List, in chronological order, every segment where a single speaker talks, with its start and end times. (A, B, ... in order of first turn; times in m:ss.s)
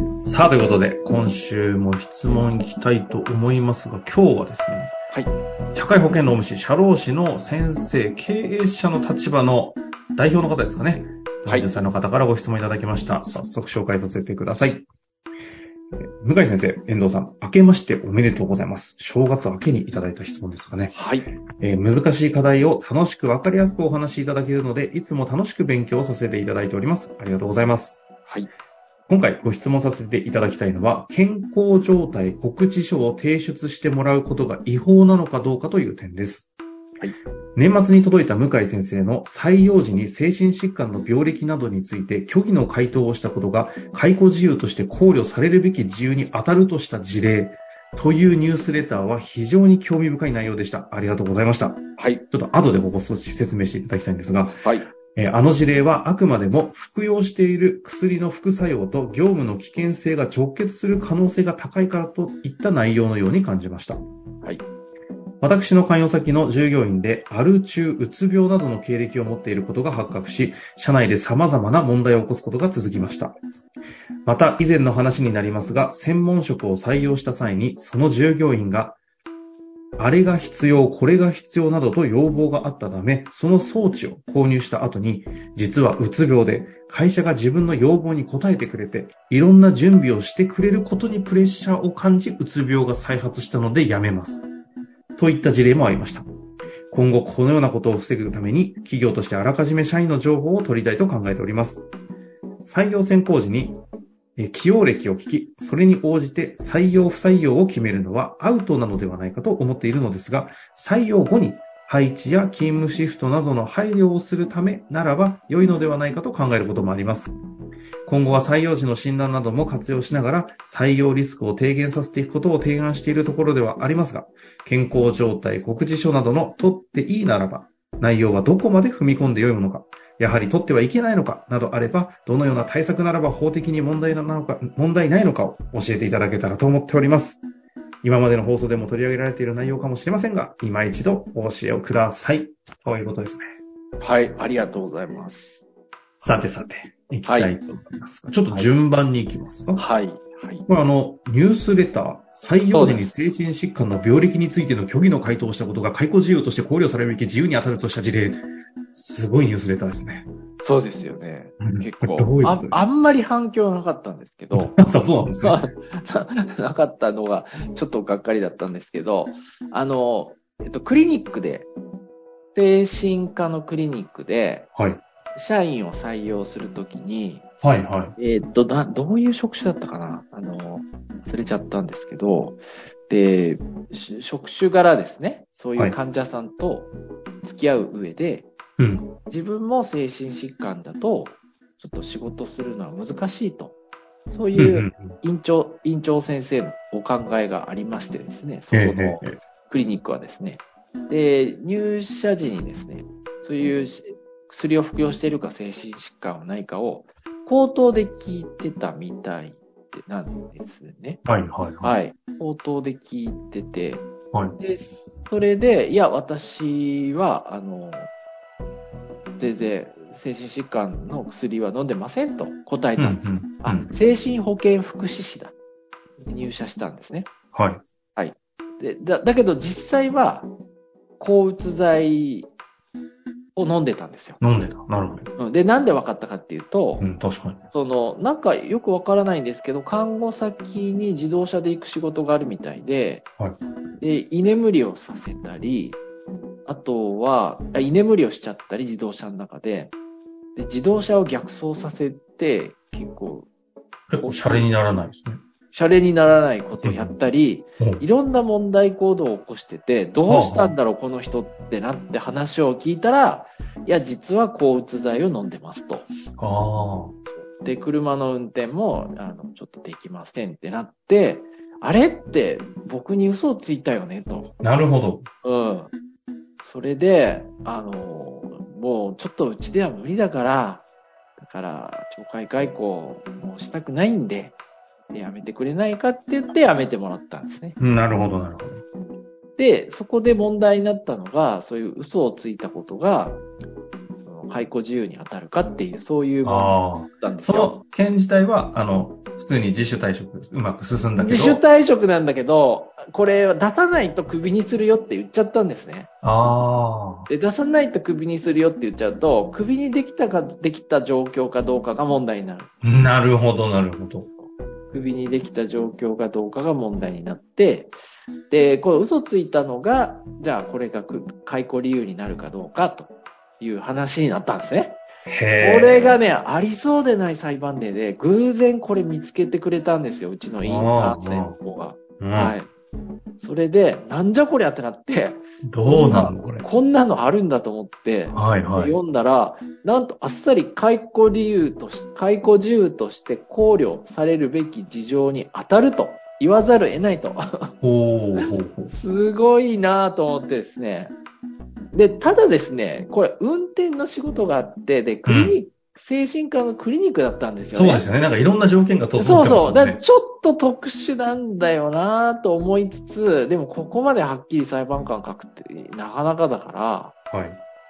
0:00.2-0:04.9 A
0:05.7-0:14.9 A
0:11.4-0:11.7 B
0:16.0-0:20.9 A
0:20.9-0:21.3 B
0:21.6-0:28.0 A
0:29.1-0:36.5 A
0:37.6-1:04.0 A
0:52.0-0:52.2 B
0:54.6-0:54.9 B
1:05.4-1:13.4 A
1:14.3-1:19.0 A
1:20.0-1:34.4 A
1:35.2-1:36.3 A
1:36.9-1:41.9 A
1:42.6-1:43.8 A
1:44.4-1:57.4 A
1:58.1-2:17.4 A
2:18.0-2:23.4 A
2:24.0-2:25.6 B
2:26.2-2:29.8 A
2:27.3-2:27.5 B
2:29.8-2:30.6 B
2:30.7-2:38.4 A
2:32.7-2:33.1 B
2:39.0-2:40.3 A
2:40.6-2:51.7 B
2:41.6-2:42.8 A
2:44.5-2:45.6 A
2:52.5-2:54.7 B
2:55.4-2:57.5 B
2:57.6-2:58.2 A
2:58.2-3:06.9 B
3:07.4-3:08.5 B
3:08.8-3:09.1 A
3:09.3-3:13.8 B
3:14.3-3:31.2 B
3:14.6-3:15.2 A
3:18.7-3:19.4 A
3:31.2-3:31.9 A
3:31.8-3:34.0 B
3:34.6-3:38.1 B
3:39.4-3:45.5 B
3:43.0-3:43.9 A
3:46.2-3:47.3 B
3:47.5-3:47.8 A
3:48.2-3:50.5 B
3:51.2-3:52.5 B
3:53.6-3:54.4 B
3:54.4-3:55.3 A
3:55.4-3:57.1 B
3:57.0-3:57.6 A
3:57.7-4:03.3 B
4:04.0-4:06.0 B
4:06.7-4:09.9 B
4:10.6-4:13.5 B
4:14.1-4:15.4 A
4:14.2-4:14.7 B
4:15.7-4:26.1 B
4:16.8-4:17.2 A
4:20.3-4:20.8 A
4:26.4-4:27.2 A
4:27.4-4:34.5 B
4:34.6-4:35.3 A
4:35.4-4:35.9 B
4:36.6-4:40.8 B
4:41.4-4:44.6 B
4:45.1-4:47.8 B
4:47.8-4:48.8 A
4:49.6-4:53.4 B
4:54.2-4:57.8 B
4:56.4-5:01.6 A
5:01.2-5:06.1 B
5:06.2-5:07.3 A
5:07.3-5:12.8 B
5:12.8-5:14.3 A
5:14.4-5:18.0 B
5:18.5-5:25.0 B
5:25.3-5:26.2 A
5:25.6-5:32.7 B
5:30.6-5:31.6 A
5:32.2-5:32.6 A
5:33.4-5:47.7 B
5:35.6-5:36.7 A
5:38.3-5:39.0 A
5:47.8-5:48.9 A
5:48.4-5:51.1 B
5:51.9-5:58.1 B
5:55.3-5:55.6 A
5:57.7-6:00.0 A
5:59.2-6:07.2 B
6:07.3-6:07.6 A